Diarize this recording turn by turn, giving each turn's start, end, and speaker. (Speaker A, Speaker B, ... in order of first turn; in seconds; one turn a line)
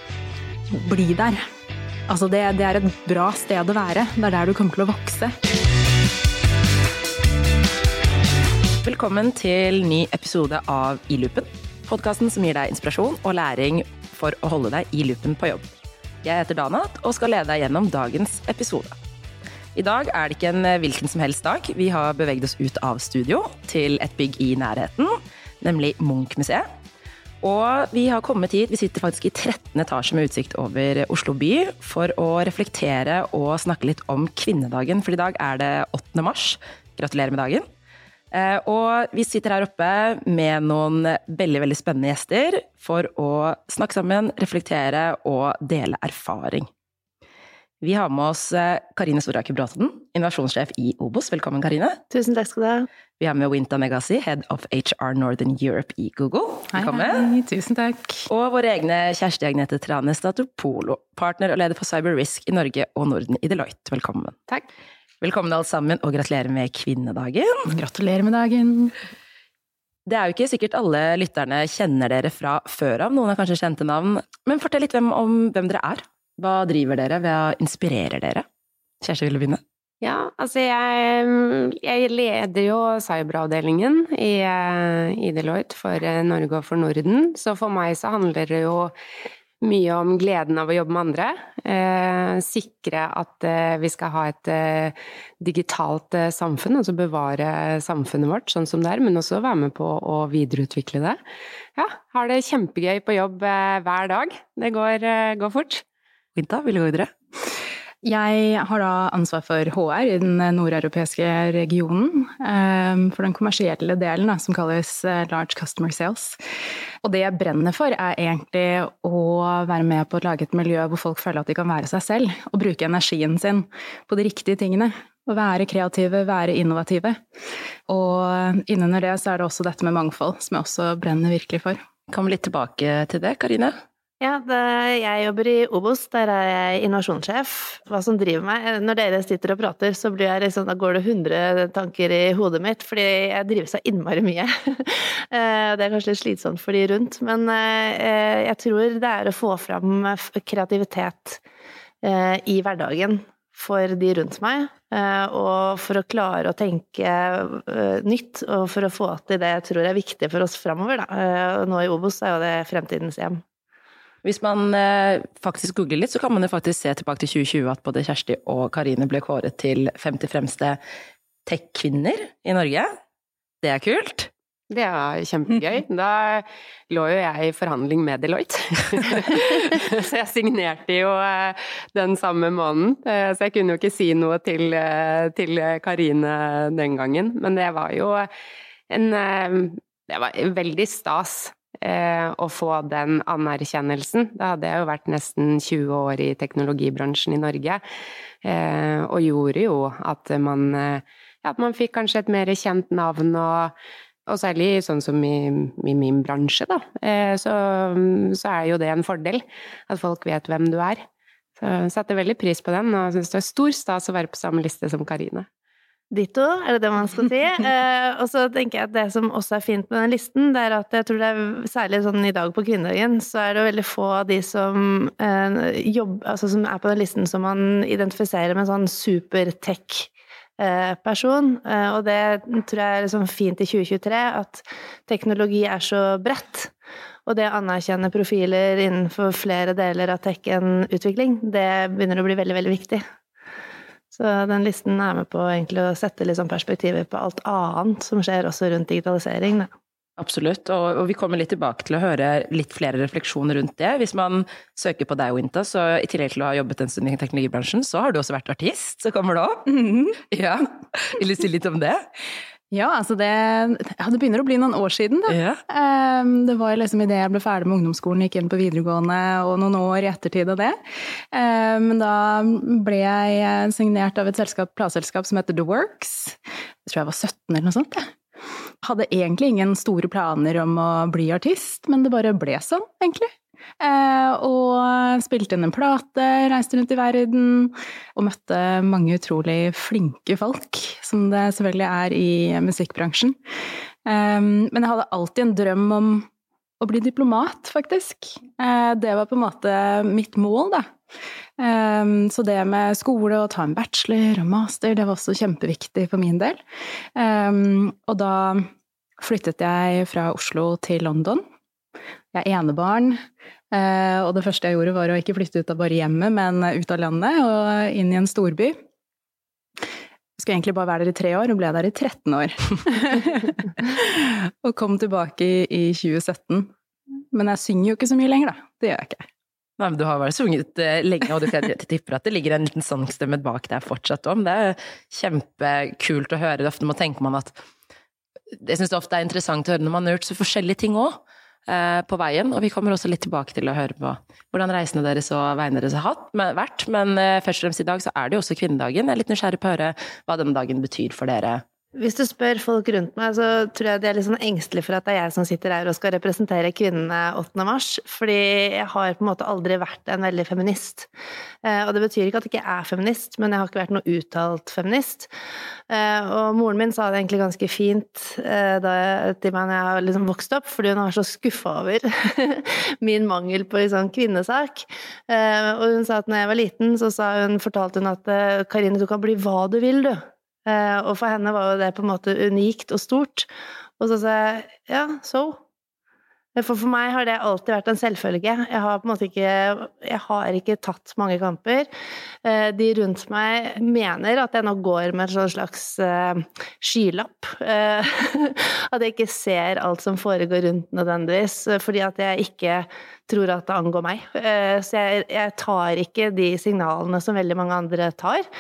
Speaker A: 0.7-1.4
Speaker A: 2.1-5.3
Speaker B: 8.8-18.9
Speaker B: 19.7-26.6
Speaker B: 27.4-37.6
Speaker B: 38.3-46.7
Speaker B: 47.8-52.0
Speaker C: 52.1-52.9
Speaker B: 53.2-57.3
Speaker A: 56.7-58.2
Speaker B: 58.3-64.4
Speaker B: 65.2-67.7
Speaker A: 67.7-68.9
Speaker B: 70.0-78.4
Speaker B: 79.0-79.6
Speaker D: 80.0-88.9
Speaker D: 89.6-101.2
Speaker D: 101.7-105.8
Speaker B: 106.3-107.1
Speaker A: 108.0-116.4
Speaker A: 117.0-127.2
Speaker A: 127.9-131.8
Speaker B: 132.1-133.8
Speaker C: 134.2-151.4
Speaker C: 152.0-163.4
Speaker B: 164.2-170.8
Speaker B: 171.4-172.9
Speaker B: 173.6-174.3
Speaker D: 174.7-188.3
Speaker D: 188.9-197.8
Speaker D: 198.4-203.7
Speaker D: 204.3-211.1
Speaker D: 211.6-215.5
Speaker C: 216.1-236.7
Speaker C: 237.2-243.0
Speaker C: 244.1-249.7
Speaker B: 250.2-259.7
Speaker A: 259.7-260.2
Speaker B: 260.3-262.0
Speaker A: 262.7-270.8
Speaker B: 265.3-265.6
Speaker A: 271.3-278.1
Speaker A: 278.8-293.4
Speaker A: 294.1-296.3
Speaker A: 296.8-300.9
Speaker A: 301.6-306.6
Speaker A: 307.1-311.4
Speaker A: 312.3-313.2
Speaker A: 313.7-318.8
Speaker A: 320.4-326.7
Speaker A: 327.3-329.2
Speaker B: 329.8-337.6
Speaker B: 338.6-351.6
Speaker C: 351.9-361.1
Speaker C: 361.6-365.3
Speaker C: 365.9-383.5
Speaker C: 384.0-385.6
Speaker C: 386.5-391.9
Speaker C: 392.4-408.4